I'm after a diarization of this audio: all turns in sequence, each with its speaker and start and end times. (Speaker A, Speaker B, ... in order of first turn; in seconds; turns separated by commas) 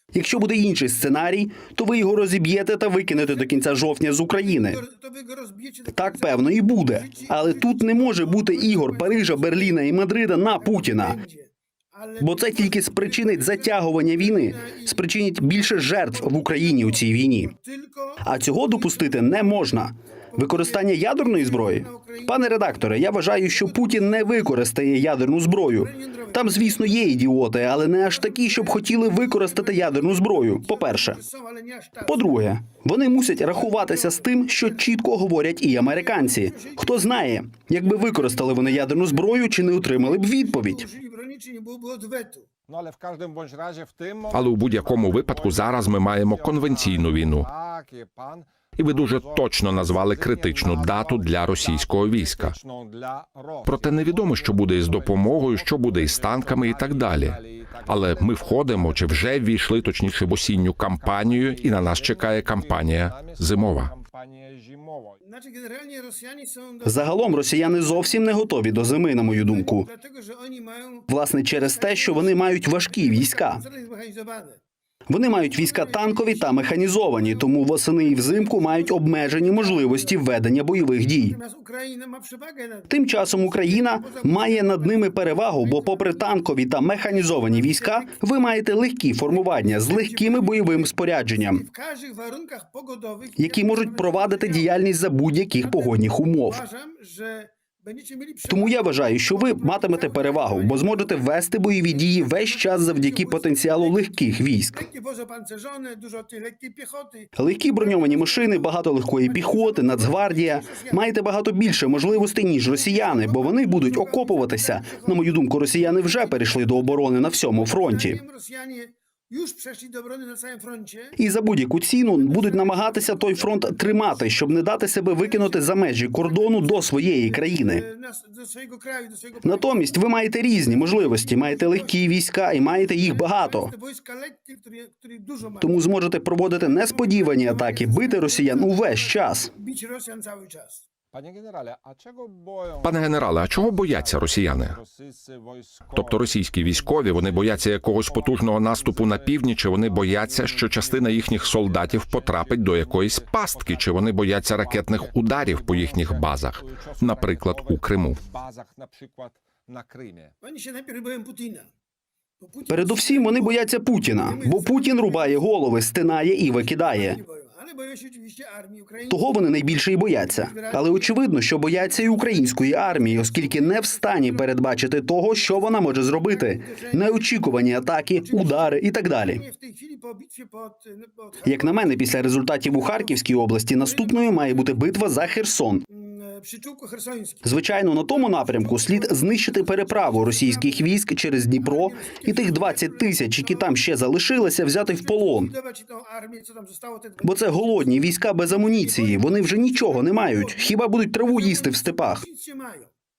Speaker A: 0.1-4.8, Speaker B: 4.5-9.8, Speaker A: 5.9-11.2, Speaker B: 10.6-15.0, Speaker A: 12.2-17.5, Speaker B: 16.1-18.2, Speaker A: 18.2-31.2, Speaker B: 18.8-19.6, Speaker B: 20.4-22.4, Speaker B: 23.5-24.5, Speaker B: 25.9-26.9, Speaker B: 28.1-32.3, Speaker A: 32.0-40.9, Speaker B: 33.5-34.2, Speaker B: 36.0-37.0, Speaker B: 37.9-39.2, Speaker B: 40.0-42.5, Speaker C: 42.7-60.3, Speaker D: 44.3-47.5, Speaker D: 48.8-52.6, Speaker D: 53.6-63.9, Speaker C: 61.0-65.2, Speaker B: 65.2-68.1, Speaker A: 66.8-69.9, Speaker B: 69.5-71.1, Speaker A: 71.1-73.6, Speaker B: 71.7-74.6, Speaker A: 75.1-81.4, Speaker B: 75.5-77.5, Speaker B: 78.1-80.2, Speaker B: 81.2-86.3, Speaker A: 82.9-91.6, Speaker B: 87.2-88.2, Speaker B: 89.9-94.7, Speaker A: 93.4-96.6, Speaker B: 95.6-96.0, Speaker B: 96.5-101.1, Speaker A: 98.5-104.9, Speaker B: 101.9-104.0, Speaker B: 104.8-107.3, Speaker A: 107.4-118.2, Speaker B: 107.8-108.7, Speaker B: 109.2-111.0, Speaker B: 112.8-117.0, Speaker B: 117.6-121.2, Speaker A: 121.2-127.9, Speaker B: 122.2-124.5, Speaker B: 125.2-125.7, Speaker B: 126.2-129.8, Speaker A: 129.4-133.7, Speaker B: 130.7-132.0, Speaker B: 133.0-135.8, Speaker A: 135.6-139.5, Speaker B: 136.6-140.9, Speaker C: 141.1-160.3, Speaker D: 142.8-144.8, Speaker D: 145.9-158.2, Speaker B: 160.4-161.7, Speaker B: 162.4-163.6, Speaker A: 162.7-167.2, Speaker B: 164.3-165.4, Speaker B: 166.5-169.2, Speaker A: 169.1-179.4, Speaker B: 170.4-171.1, Speaker B: 171.7-174.4, Speaker B: 176.3-177.2, Speaker B: 178.2-178.8, Speaker B: 179.3-181.9, Speaker A: 181.4-185.8, Speaker B: 182.8-183.1, Speaker B: 183.8-184.8, Speaker B: 185.9-187.4, Speaker A: 187.4-195.5, Speaker B: 188.1-190.8, Speaker B: 191.6-193.7, Speaker B: 194.9-198.0, Speaker A: 197.2-202.2, Speaker B: 198.8-202.9